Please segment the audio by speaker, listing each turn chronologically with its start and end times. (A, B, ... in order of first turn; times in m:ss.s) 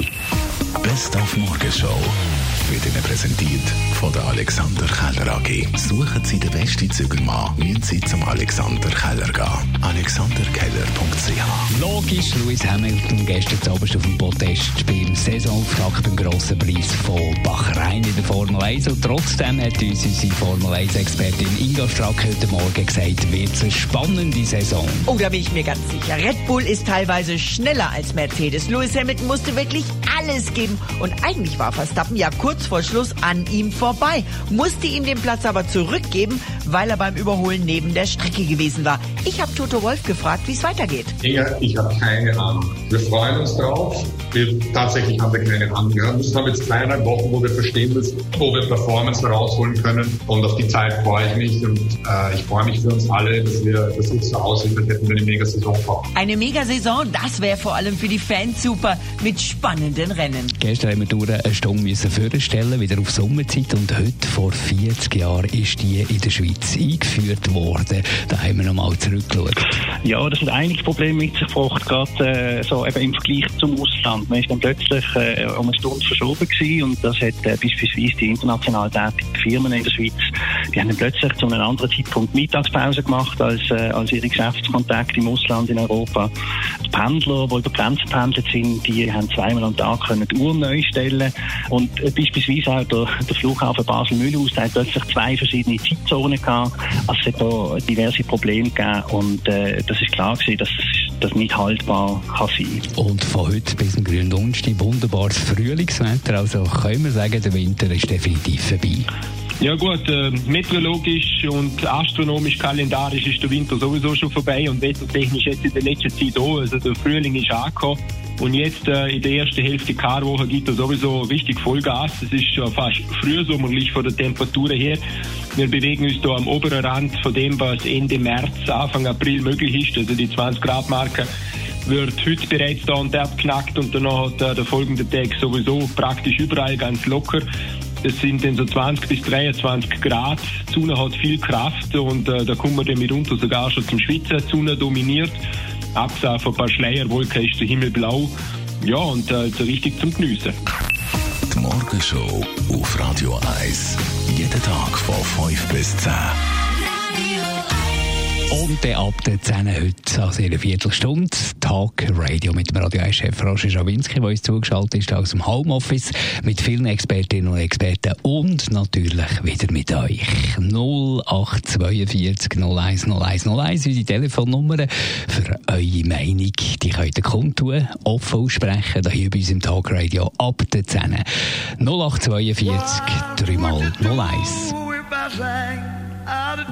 0:00.8-0:02.1 A
0:02.6-0:11.6 A
0:11.7-0:25.1 B
0:25.1-0:41.2 C
0:41.2-0:56.1 D
0:56.2-1:00.5 C
1:00.6-1:09.6 B
1:10.0-1:20.2 E
1:20.7-1:26.3 E
1:26.8-1:42.8 E
1:43.0-1:49.1 B
1:49.6-2:05.0 F
2:05.6-2:11.3 F
2:11.9-2:17.5 F
2:18.0-2:25.4 F
2:26.0-2:30.6 F
2:31.5-2:36.2 A
2:38.5-3:01.2 B
3:01.8-3:04.8 B